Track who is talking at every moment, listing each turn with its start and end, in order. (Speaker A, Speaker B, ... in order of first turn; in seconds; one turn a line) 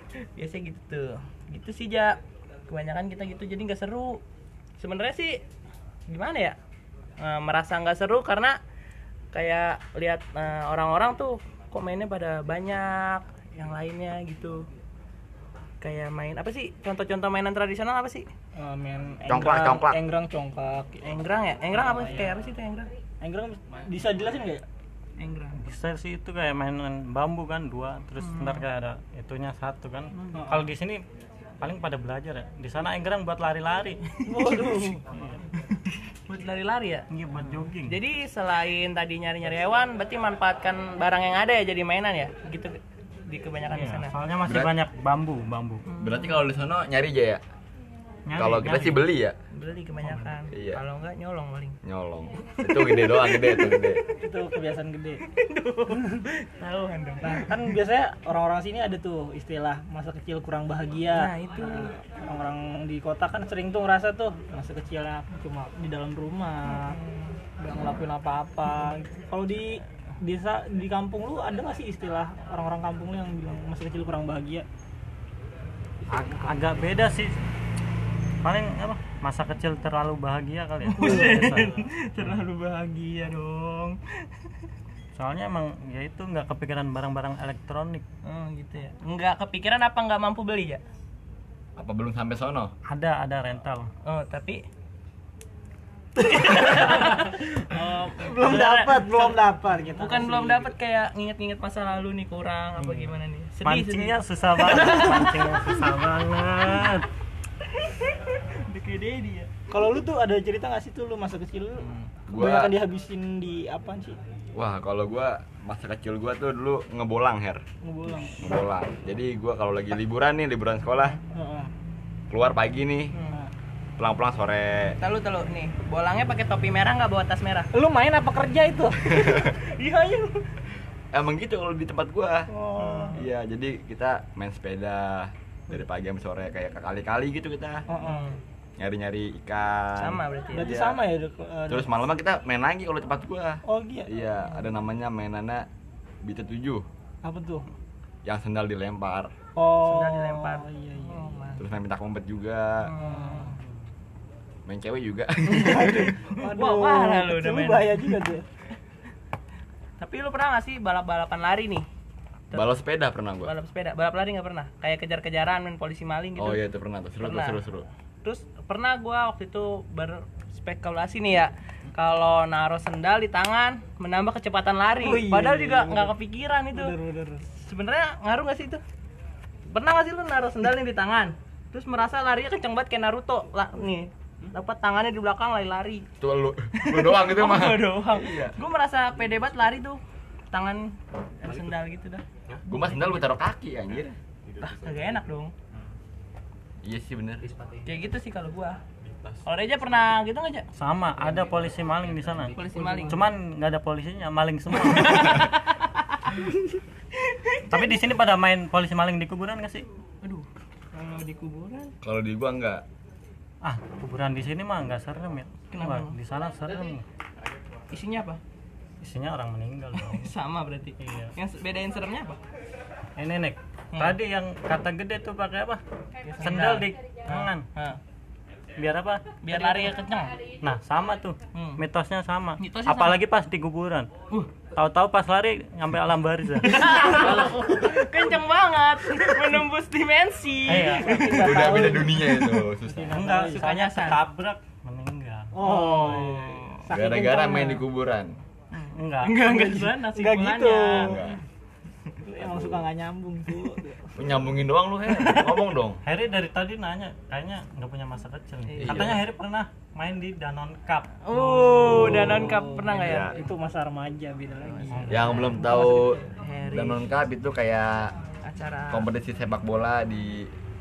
Speaker A: 0.4-4.2
Speaker A: 4.8-5.4
Speaker A: 6.1-6.6
Speaker A: 7.2-8.6
Speaker A: 9.3-14.7
Speaker A: 15.8-18.3
Speaker B: 18.6-21.1
Speaker C: 19.3-20.0
Speaker A: 21.0-22.9
Speaker B: 21.8-22.4
Speaker B: 23.2-24.6
Speaker A: 25.2-25.6
Speaker D: 25.5-31.0
Speaker A: 28.2-28.7
Speaker B: 30.3-30.7
Speaker D: 31.6-34.0
Speaker A: 34.2-35.0
Speaker B: 34.2-35.0
Speaker D: 35.1-35.4
Speaker A: 35.7-37.1
Speaker D: 37.1-38.0
Speaker A: 37.7-44.1
Speaker D: 43.7-45.9
Speaker C: 44.4-44.7
Speaker A: 45.9-46.5
Speaker C: 46.0-47.4
Speaker D: 48.3-49.1
Speaker C: 48.4-49.4
Speaker A: 49.5-51.8
Speaker D: 50.0-50.3
Speaker C: 50.5-50.8
Speaker C: 51.8-54.0
Speaker A: 52.6-53.9
Speaker B: 54.2-55.2
Speaker A: 55.3-57.7
Speaker B: 57.2-67.0
Speaker A: 61.1-61.9
Speaker A: 66.7-67.3
Speaker B: 67.6-74.7
Speaker D: 76.1-77.3
Speaker D: 78.4-81.8
Speaker A: 80.9-84.0
Speaker D: 85.2-88.0
Speaker A: 88.2-90.8
Speaker C: 91.8-92.7
Speaker D: 92.9-93.9
Speaker A: 94.0-94.6
Speaker A: 96.2-99.4
Speaker B: 98.2-100.7
Speaker A: 99.9-105.5
Speaker D: 102.8-107.1
Speaker A: 107.8-109.5
Speaker B: 109.7-114.2
Speaker C: 112.3-112.8
Speaker C: 114.5-117.6
Speaker B: 117.8-118.5
Speaker C: 118.4-121.2
Speaker B: 121.2-121.7
Speaker C: 122.3-123.2
Speaker A: 123.1-123.4
Speaker C: 124.0-125.0
Speaker A: 125.0-127.7
Speaker B: 127.7-129.0
Speaker C: 129.1-129.6
Speaker A: 129.1-130.4
Speaker C: 131.1-132.5
Speaker B: 132.5-133.2
Speaker A: 132.8-133.3
Speaker C: 133.1-137.8
Speaker B: 137.9-138.3
Speaker A: 138.0-138.4
Speaker C: 138.8-141.0
Speaker A: 140.0-140.7
Speaker B: 140.5-141.9
Speaker C: 141.7-145.7
Speaker B: 143.7-144.1
Speaker C: 146.2-146.9
Speaker B: 147.2-147.7
Speaker C: 148.2-149.3
Speaker B: 149.6-151.5
Speaker A: 149.8-151.7
Speaker C: 151.6-152.9
Speaker A: 152.8-153.6
Speaker B: 153.0-153.6
Speaker C: 154.7-156.1
Speaker B: 155.5-158.5
Speaker A: 155.6-158.1
Speaker A: 160.0-161.9
Speaker C: 162.5-163.5
Speaker A: 163.4-166.7
Speaker C: 166.4-167.9
Speaker A: 167.2-167.7
Speaker A: 168.2-176.9
Speaker B: 175.0-176.1
Speaker B: 176.7-177.4
Speaker A: 177.6-178.8
Speaker A: 179.7-186.1
Speaker C: 186.2-188.6
Speaker A: 186.8-190.0
Speaker A: 190.5-192.2
Speaker C: 192.7-194.2
Speaker A: 194.6-195.5
Speaker C: 196.8-197.5
Speaker A: 197.8-198.8
Speaker A: 199.4-200.7
Speaker D: 200.8-205.5
Speaker A: 202.5-203.2
Speaker A: 204.7-206.5
Speaker A: 207.3-208.0
Speaker D: 207.7-209.9
Speaker A: 210.2-211.9
Speaker C: 212.0-212.8
Speaker D: 213.6-217.0
Speaker A: 215.7-216.1
Speaker A: 217.9-218.4
Speaker D: 219.0-220.3
Speaker A: 219.9-222.4
Speaker D: 221.0-221.3
Speaker D: 223.2-225.8
Speaker A: 223.9-224.2
Speaker A: 226.2-228.0
Speaker D: 226.4-227.7
Speaker D: 228.8-229.4
Speaker A: 229.4-230.4
Speaker D: 230.6-234.1
Speaker A: 231.5-231.8
Speaker A: 232.6-233.2
Speaker A: 234.3-234.6
Speaker D: 234.7-236.9
Speaker A: 236.6-242.7
Speaker D: 240.7-241.4
Speaker B: 240.7-243.7
Speaker C: 241.3-243.2
Speaker D: 243.1-245.6
Speaker A: 243.5-244.2
Speaker B: 245.5-247.8
Speaker A: 245.6-246.6
Speaker C: 246.9-248.3
Speaker A: 248.7-251.3
Speaker D: 248.9-249.4
Speaker B: 249.4-251.3
Speaker C: 251.0-251.4
Speaker B: 252.2-254.6
Speaker C: 252.4-252.8
Speaker C: 254.2-256.0
Speaker D: 256.1-262.2
Speaker A: 258.7-259.2
Speaker C: 258.8-259.2
Speaker A: 261.2-263.4
Speaker B: 261.8-266.2
Speaker C: 262.0-263.4
Speaker D: 264.9-265.6
Speaker C: 265.1-268.1
Speaker A: 265.7-267.1
Speaker A: 268.4-269.1
Speaker C: 268.9-270.5